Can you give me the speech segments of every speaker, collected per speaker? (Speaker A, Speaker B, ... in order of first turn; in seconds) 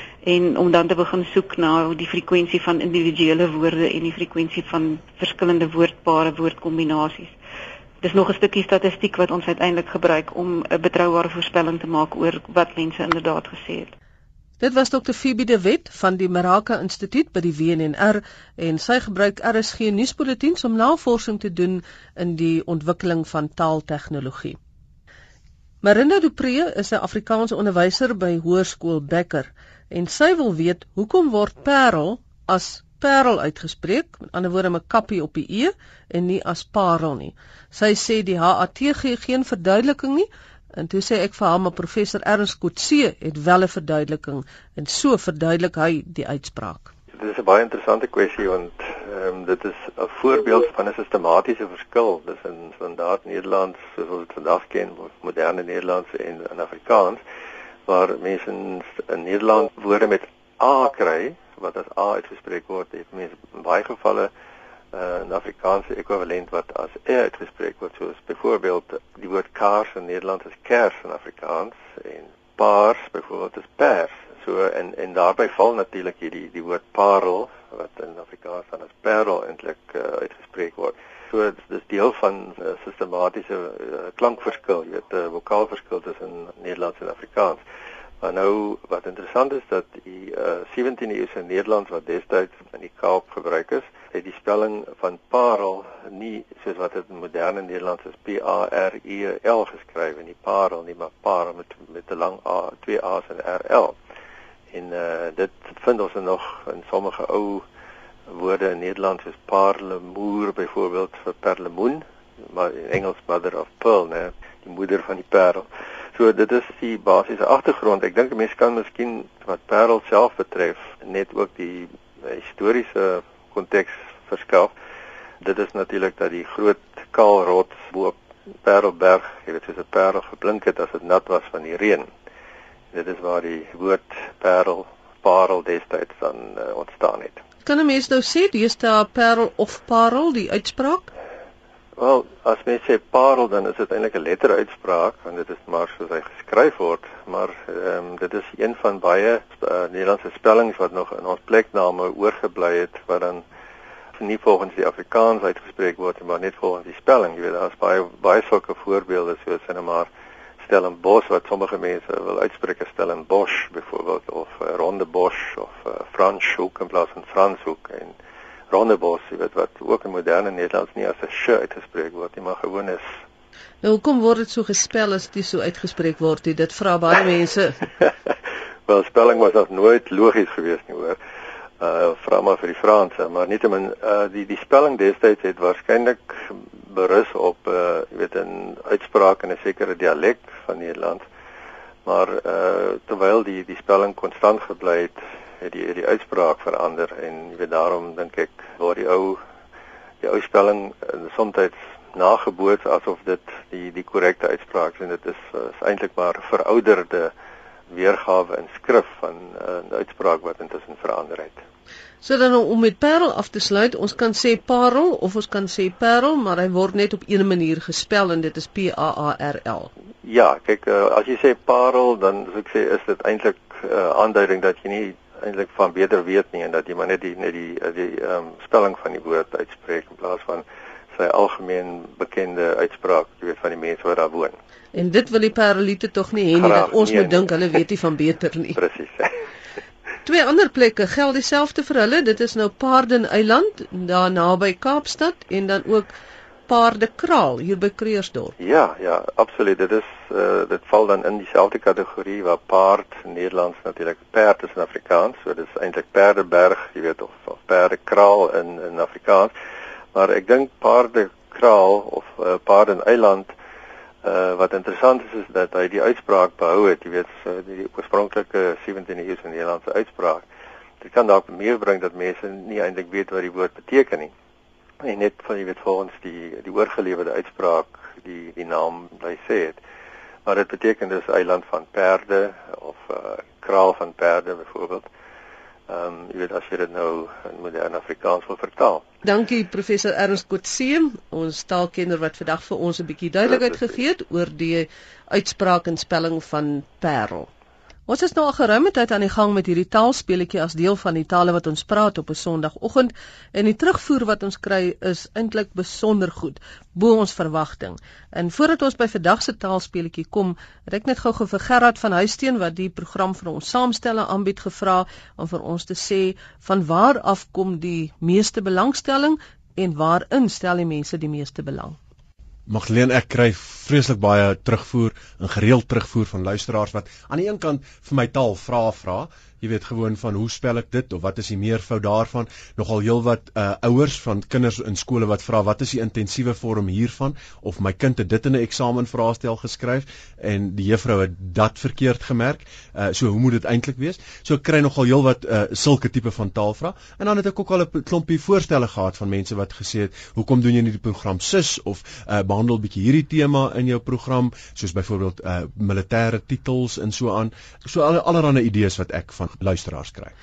Speaker A: 0.2-7.3, 8.0-13.9
Speaker B: 14.6-24.6, 25.8-46.9, 137.6-141.1, 173.8-177.8, 212.2-219.9, 234.9-238.8, 240.2-246.1, 246.7-248.5, 289.2-297.5, 298.1-322.0
Speaker C: 47.2-57.2, 57.9-64.3, 64.9-87.6, 88.2-103.9, 104.7-107.6, 108.3-124.7, 125.4-132.1, 132.9-137.4, 142.0-153.4, 154.2-160.1, 160.6-168.1, 168.7-173.1, 178.9-181.2, 181.8-191.2, 192.0-199.4, 200.2-207.3, 207.9-211.6, 220.2-234.6, 236.5-237.5, 238.8-239.3, 248.6-259.5, 260.1-263.5, 264.2-270.4, 271.0-274.3, 275.0-279.8, 280.4-285.1, 285.9-289.0
Speaker D: 322.7-360.3